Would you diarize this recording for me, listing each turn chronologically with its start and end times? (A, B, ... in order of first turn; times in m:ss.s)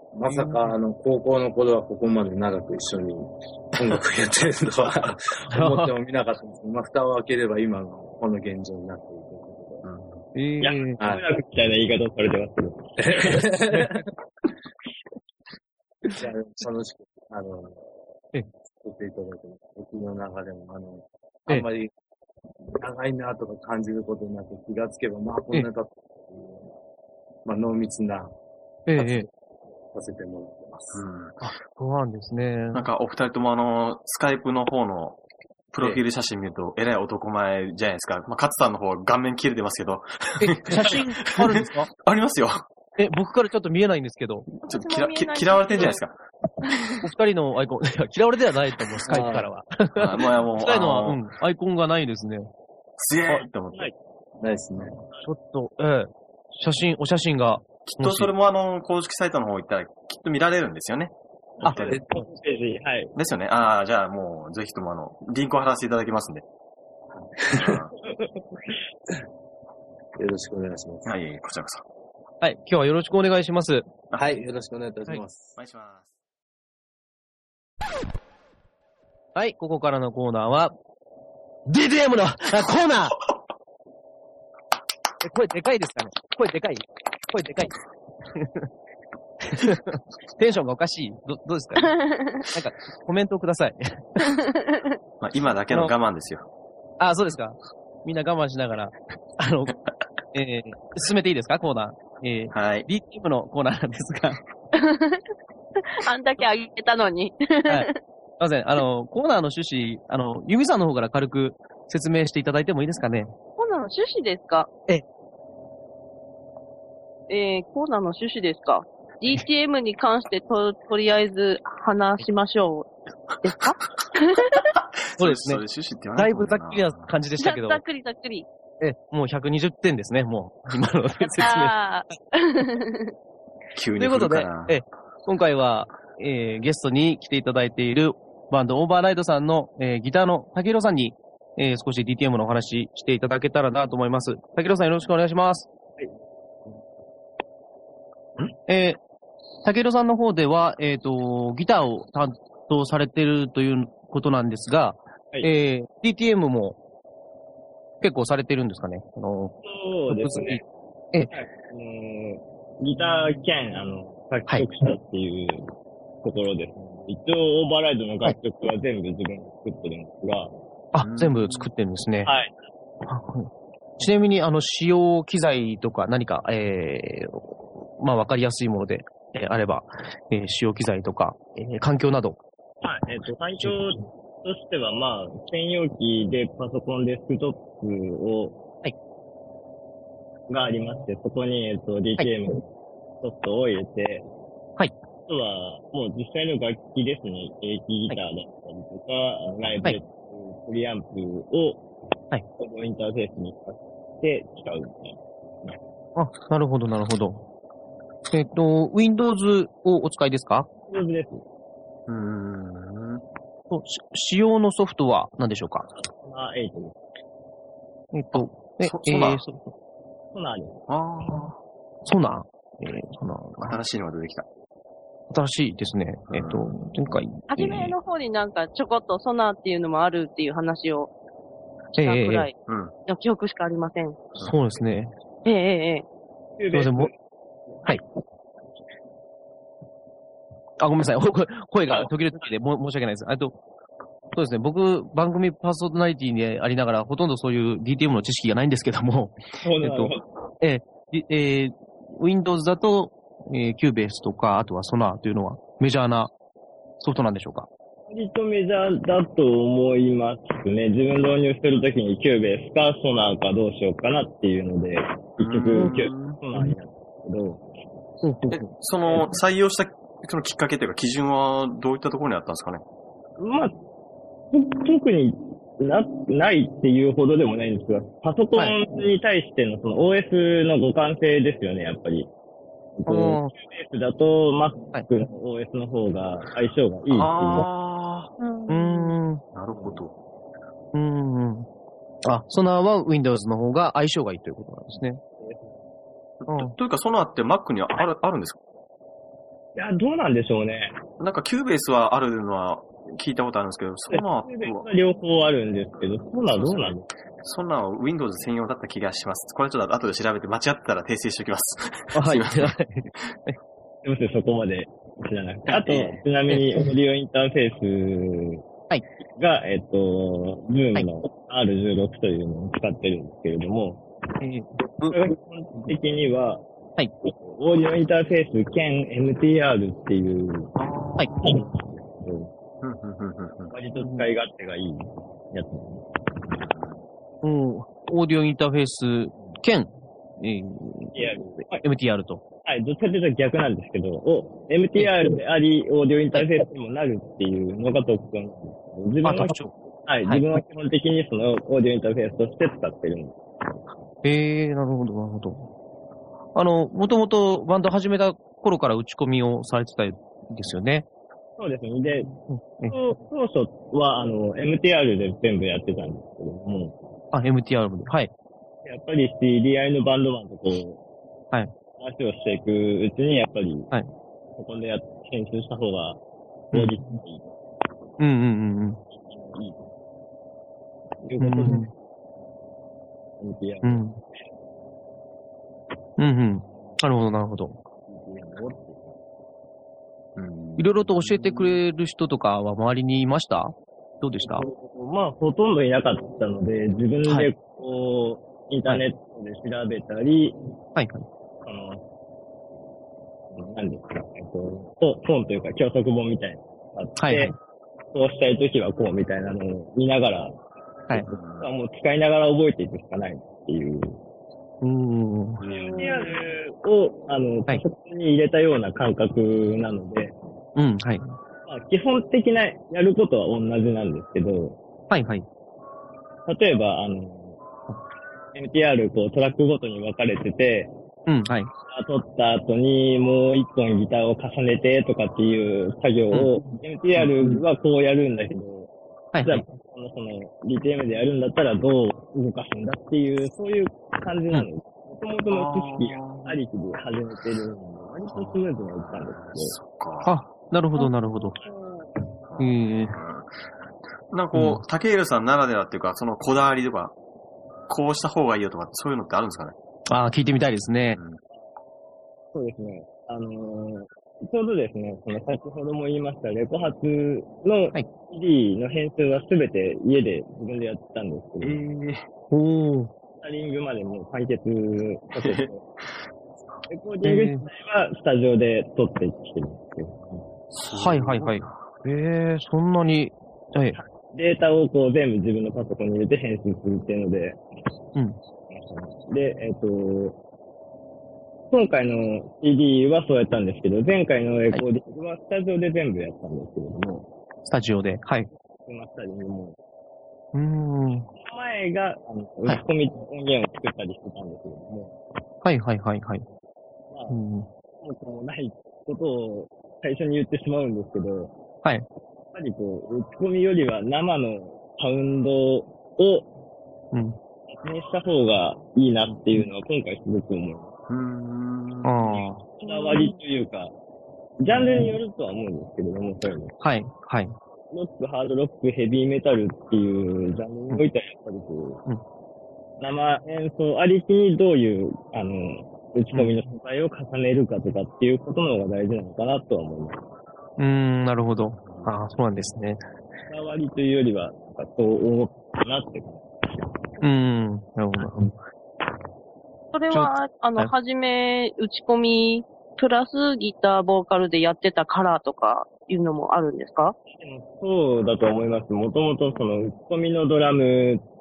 0:00.1-0:09.9 A
0:00.3-0:00.8 B
0:05.5-0:05.9 B
0:09.8-0:10.2 C
0:10.4-0:11.0 B
0:10.6-0:13.5 D
0:13.0-0:14.1 A
0:16.1-0:17.9 A
0:18.8-0:21.9 A
0:22.8-0:26.7 A
0:27.4-0:28.3 A
0:28.9-0:29.3 B
0:29.0-0:29.3 A
0:29.9-0:31.0 A
0:30.9-0:31.4 C
0:31.4-0:32.8 B
0:32.7-0:35.2 C
0:35.7-0:42.7 C
0:40.4-0:41.9 B
0:43.0-0:44.5 B
0:44.7-0:46.2 C
0:44.7-0:46.0 E
0:46.6-0:47.0 E
0:47.0-0:52.5 B
0:49.1-0:49.5 A
0:50.0-0:51.2 C
0:53.0-0:53.9 C
0:54.4-0:55.0 A
0:55.2-0:58.3 B
0:57.8-1:02.0 C
1:01.6-1:03.1 D
1:03.2-1:06.4 C
1:07.2-1:07.9 A
1:07.5-1:07.9 C
1:10.2-1:11.1 A
1:11.0-1:11.8 C
1:12.4-1:13.9 B
1:14.2-1:15.6 A
1:15.6-1:16.1 C
1:19.4-1:20.7 B
1:21.7-1:23.2 B
1:25.2-1:27.7 B
1:28.4-1:28.7 B
1:29.4-1:32.0 B
1:31.8-1:32.4 E
1:32.5-1:34.4 B
1:34.2-1:34.8 E
1:35.2-1:36.5 C
1:37.0-1:39.8 B
1:40.3-1:44.4 B
1:42.5-1:42.9 C
1:44.7-1:45.2 E
1:45.9-1:48.0 E
1:48.4-1:53.3 B
1:53.6-1:54.7 E
1:57.3-2:02.9 E
2:03.4-2:04.7 E
2:05.1-2:07.1 C
2:05.2-2:05.6 B
2:06.2-2:07.8 B
2:07.4-2:08.5 E
2:08.8-2:11.8 B
2:11.2-2:13.1 E
2:13.8-2:14.8 C
2:14.0-2:25.7 B
2:28.7-2:29.0 B
2:29.6-2:36.8 B
2:38.0-2:39.6 B
2:39.6-2:40.6 D
2:40.1-2:40.6 B
2:41.3-2:45.7 D
2:46.2-2:50.5 D
2:50.9-2:52.3 B
2:51.0-2:51.7 C
2:52.2-2:52.5 D
2:53.1-3:02.4 B
3:02.8-3:08.6 D
3:10.5-3:12.7 D
3:13.2-3:14.2 D
3:15.3-3:21.8 D
3:22.6-3:25.8 D
3:26.2-3:27.4 B
3:28.3-3:30.7 B
3:30.9-3:31.4 D
3:32.1-3:33.2 C
3:33.7-3:35.9 B
3:36.0-3:37.0 D
3:38.1-3:39.7 B
3:38.3-3:39.4 C
3:40.3-3:40.8 D
3:40.9-3:41.6 C
3:42.0-3:43.8 B
3:43.6-3:44.5 C
3:45.3-3:48.0 B
3:46.3-3:47.1 C
3:47.5-3:51.1 E
3:52.0-3:52.5 B
3:52.0-3:52.6 E
3:52.7-3:52.9 C
3:53.1-3:54.3 E
3:54.4-3:55.1 B
3:55.4-3:56.0 E
3:56.6-3:57.1 D
3:56.7-3:57.1 B
4:00.8-4:03.6 B
4:04.3-4:16.3 B
4:09.6-4:10.2 D
4:17.0-4:17.7 B
4:18.1-4:27.6 D
4:25.4-4:26.4 C
4:28.2-4:28.7 B
4:28.5-4:32.8 C
4:33.4-4:33.8 D
4:34.5-4:42.3 D
4:43.0-4:47.7 D
4:43.1-4:43.5 B
4:47.1-4:48.3 C
4:48.4-4:49.2 E
4:48.7-4:49.4 B
4:49.5-4:50.1 C
4:49.7-4:50.0 D
4:50.9-4:51.7 B
4:52.3-4:55.2 B
4:55.4-4:55.8 D
4:56.4-4:58.6 C
4:56.5-4:56.7 B
4:59.8-5:01.0 D
5:01.2-5:04.9 C
5:04.1-5:07.1 D
5:06.5-5:13.3 C
5:12.1-5:13.6 B
5:14.0-5:18.6 D
5:15.8-5:16.2 C
5:19.4-5:24.0 D
5:24.4-5:25.2 B
5:25.1-5:26.6 D
5:27.2-5:30.7 D
5:30.8-5:31.6 C
5:31.4-5:32.5 D
5:32.8-5:33.7 C
5:33.7-5:36.6 D
5:34.0-5:34.3 B
5:36.7-5:37.0 C
5:37.4-5:41.2 B
5:41.1-5:41.8 D
5:41.7-5:42.4 B
5:42.6-5:53.4 D
5:49.2-5:49.7 B
5:54.2-5:55.7 B
5:56.6-6:01.1 B
6:01.6-6:02.4 D
6:02.5-6:03.0 B
6:02.9-6:07.0 D
6:07.3-6:08.3 B
6:08.8-6:11.0 D
6:12.0-6:13.9 D
6:14.6-6:16.2 D
6:16.7-6:17.6 D
6:18.2-6:19.0 B
6:19.1-6:19.9 D
6:21.2-6:21.9 D
6:21.4-6:21.9 B
6:23.4-6:24.1 D
6:23.8-6:24.2 B
6:26.2-6:27.8 B
6:28.1-6:29.2 D
6:30.4-6:31.8 C
6:30.8-6:34.7 B
6:34.4-6:40.6 D
6:41.0-6:41.3 B
6:41.6-6:42.0 D
6:43.5-6:47.5 D
6:47.2-6:47.6 B
6:48.1-6:50.6 D
6:51.1-6:54.2 D
6:51.3-6:51.7 C
6:54.8-6:55.6 B
6:55.6-6:56.1 C
6:55.7-7:00.4 D
6:55.8-6:56.4 E
7:00.8-7:01.4 B
7:01.7-7:04.8 D
7:05.1-7:05.4 B
7:06.5-7:07.6 D
7:08.5-7:10.9 D
7:11.3-7:11.7 B
7:11.9-7:18.9 D
7:16.3-7:16.6 B
7:17.2-7:17.6 B
7:19.3-7:19.6 B
7:19.4-7:29.8 D
7:25.5-7:26.6 C
7:28.3-7:30.4 C
7:30.2-7:31.6 B
7:31.0-7:32.0 E
7:32.5-7:33.6 C
7:32.6-7:33.2 B
7:34.3-7:37.2 C
7:34.5-7:34.8 B
7:37.9-7:39.8 C
7:40.1-7:41.2 B
7:41.1-7:41.4 C
7:42.5-7:51.8 D
7:51.6-7:52.2 C
7:52.5-7:53.1 B
7:53.4-7:55.8 D
7:55.4-7:55.7 C
7:56.9-8:00.5 D
7:57.2-7:57.6 B
8:00.7-8:01.8 C
8:01.0-8:04.0 B
8:03.9-8:07.6 D
8:08.7-8:10.4 D
8:11.7-8:17.3 D
8:17.6-8:18.5 B
8:18.8-8:19.8 D
8:20.5-8:21.3 B
8:21.4-8:25.2 D
8:25.6-8:26.4 B
8:27.1-8:27.4 D
8:27.3-8:27.7 B
8:28.0-8:31.5 D
8:32.5-8:36.5 D
8:37.7-8:41.0 D
8:41.1-8:42.2 C
8:42.0-8:42.6 B
8:42.3-8:43.9 D
8:42.8-8:43.4 E
8:44.6-8:46.8 D
8:46.8-8:47.5 B
8:47.9-8:52.0 D
8:53.0-9:00.2 D
9:00.8-9:03.0 B
9:01.8-9:02.2 C
9:03.5-9:06.9 D
9:07.2-9:08.6 B
9:09.9-9:17.2 E
9:10.1-9:10.9 B
9:17.3-9:21.2 D